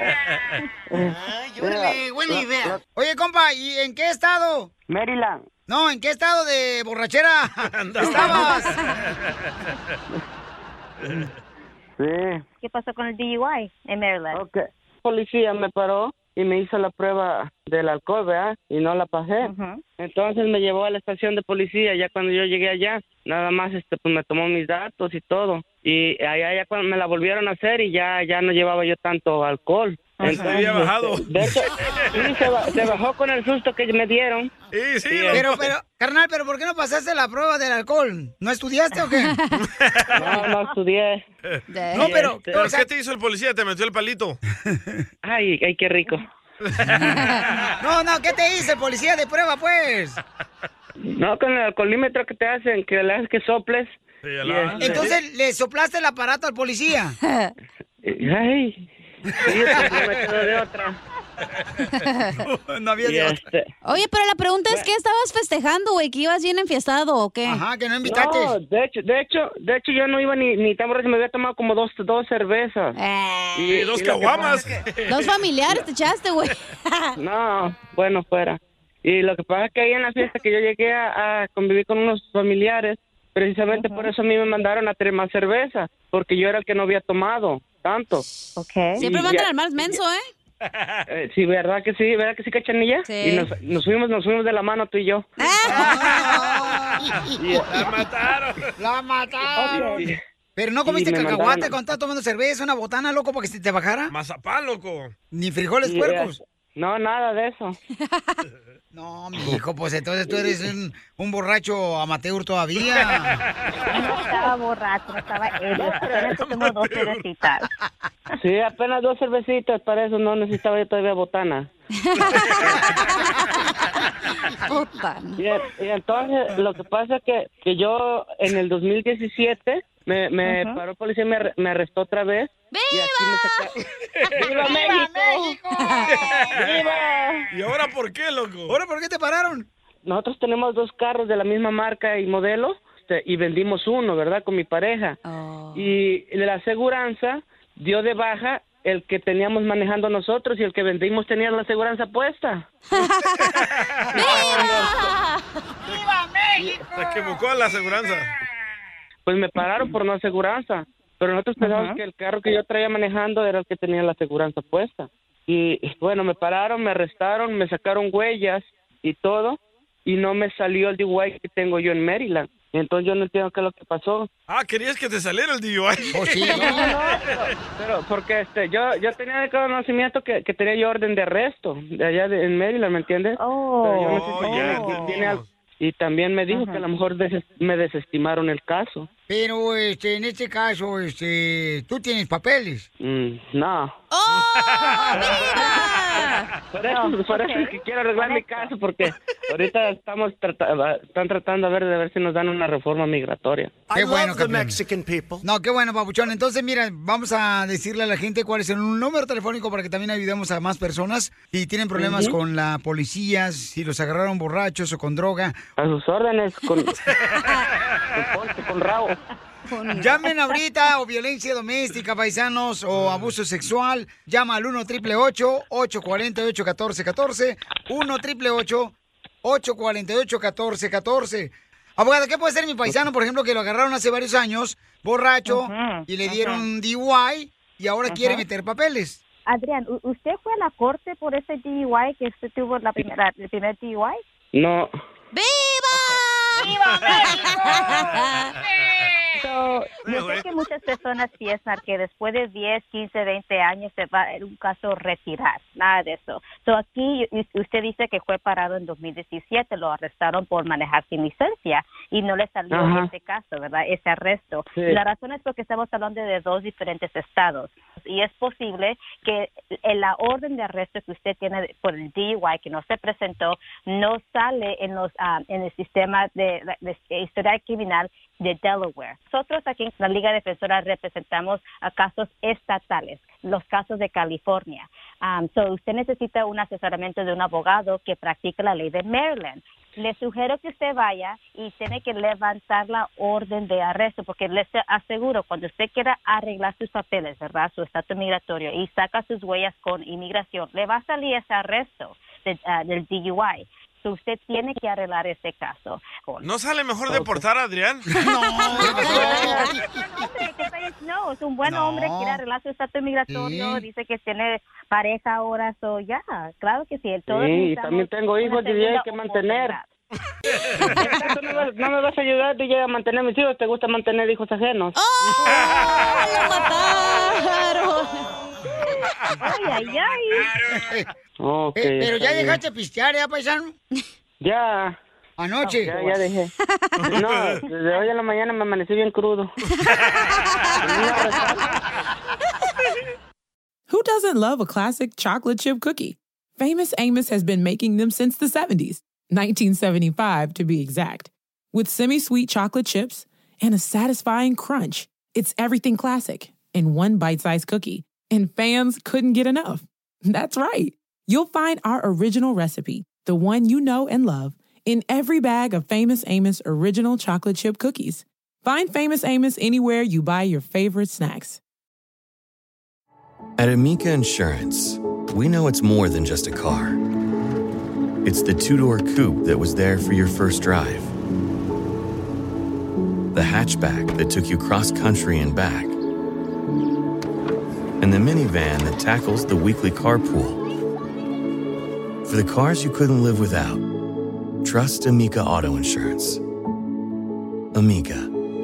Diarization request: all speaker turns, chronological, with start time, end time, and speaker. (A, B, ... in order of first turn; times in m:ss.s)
0:00.9-0:02.8 A
0:03.0-0:04.7 B
0:04.9-0:05.4 A
0:05.7-0:08.8 B
0:07.6-0:09.7 C
0:11.0-0:11.3 C
0:12.0-0:12.4 A
0:12.6-0:14.4 D
0:14.3-0:34.5 A
0:19.4-0:19.8 D
0:30.2-0:32.4 C
0:34.7-0:35.7 C
0:35.1-0:35.4 A
0:35.3-0:39.4 B
0:39.6-0:40.4 C
0:40.1-0:41.2 A
0:41.5-0:44.4 C
0:41.7-0:42.1 E
0:42.0-0:42.9 B
0:42.0-0:42.5 A
0:44.7-0:45.0 B
0:45.2-0:46.2 A
0:46.6-0:47.6 C
0:47.8-0:50.2 B
0:51.1-0:55.1 A
0:54.2-0:55.2 C
0:54.8-0:57.2 B
0:58.0-0:58.9 A
0:59.4-1:01.0 A
0:59.5-0:59.9 B
0:59.7-1:00.1 C
1:02.7-1:03.4 B
1:03.0-1:03.7 A
1:03.8-1:07.6 E
1:07.4-1:08.6 B
1:08.0-1:13.0 A
1:13.0-1:13.5 E
1:13.6-1:14.7 A
1:13.7-1:15.3 C
1:15.1-1:17.1 E
1:17.2-1:28.2 A
1:23.7-1:24.1 D
1:28.6-1:29.0 D
1:29.0-1:29.9 A
1:29.0-1:30.3 E
1:30.6-1:31.0 C
1:31.1-1:35.3 A
1:33.0-1:33.5 E
1:35.4-1:35.9 E
1:35.7-1:38.1 B
1:35.7-1:38.7 C
1:37.4-1:37.8 A
1:38.8-1:44.1 B
1:39.6-1:40.0 D
1:39.6-1:40.2 A
1:40.9-1:41.8 A
1:44.1-1:45.1 C
1:45.3-1:46.4 B
1:45.8-1:47.8 A
1:48.9-1:53.4 B
1:50.3-1:50.5 A
1:52.8-1:54.2 C
1:53.9-1:57.7 D
1:55.7-1:56.3 A
1:55.8-1:57.3 C
1:58.4-2:01.7 A
2:02.1-2:02.5 E
2:02.6-2:02.9 C
2:04.6-2:05.3 E
2:05.4-2:13.8 A
2:10.4-2:10.8 D
2:12.7-2:13.7 E
2:14.4-2:15.6 A
2:14.5-2:16.6 B
2:15.8-2:16.1 E
2:16.1-2:16.9 C
2:16.5-2:17.4 A
2:17.5-2:18.8 C
2:18.7-2:19.7 B
2:20.1-2:25.2 A
2:25.2-2:25.9 E
2:25.7-2:32.7 A
2:33.0-2:33.5 E
2:33.7-2:34.0 C
2:34.1-2:35.3 E
2:34.2-2:35.0 A
2:34.3-2:34.7 B
2:35.9-2:37.4 B
2:36.9-2:38.3 C
2:39.3-2:54.3 A
2:54.5-2:57.0 C
2:56.1-2:57.0 B
2:56.4-3:09.1 A
3:03.4-3:05.2 D
3:04.0-3:05.5 C
3:06.5-3:06.8 D
3:09.3-3:12.9 B
3:13.0-3:14.0 A
3:14.1-3:16.4 E
3:14.3-3:15.6 C
3:16.7-3:23.8 A
3:16.8-3:18.7 D
3:23.9-3:24.8 B
3:25.4-3:35.6 B
3:31.9-3:32.4 A
3:35.8-3:36.9 A
3:38.2-3:39.2 A
3:39.7-3:40.2 E
3:39.9-3:59.2 B
3:42.9-3:43.3 C
3:55.4-3:56.6 D
3:58.1-3:58.4 D
3:59.4-4:04.2 D
4:04.5-4:04.9 A
4:05.3-4:08.5 E
4:05.9-4:06.2 D
4:06.6-4:08.2 C
4:08.8-4:09.1 C
4:09.3-5:06.5 D
4:10.0-4:10.5 C
4:22.7-4:23.1 A
5:06.4-5:08.1 C
5:07.1-5:07.4 A
5:08.2-5:10.3 B
5:08.7-5:19.9 D
5:11.6-5:12.4 B
5:13.3-5:13.9 B
5:17.3-5:19.8 A
5:21.0-5:24.9 A
5:24.9-5:28.3 E
5:29.4-5:30.5 D
5:30.7-5:31.1 B
5:31.4-5:32.6 A
5:31.8-5:33.7 B
5:34.4-5:35.0 A
5:35.4-5:36.0 B
5:35.6-5:36.2 D
5:35.8-5:36.5 A
5:37.0-5:37.5 C
5:37.1-5:39.5 A
5:40.5-5:41.3 E
5:40.8-5:41.7 A
5:43.9-6:11.6 F
6:13.6-6:17.0 G
6:18.2-6:21.1 G
6:23.3-6:26.0 G
6:28.0-6:30.6 G
6:32.2-6:33.8 G
6:34.6-6:36.4 G
6:37.7-6:38.3 G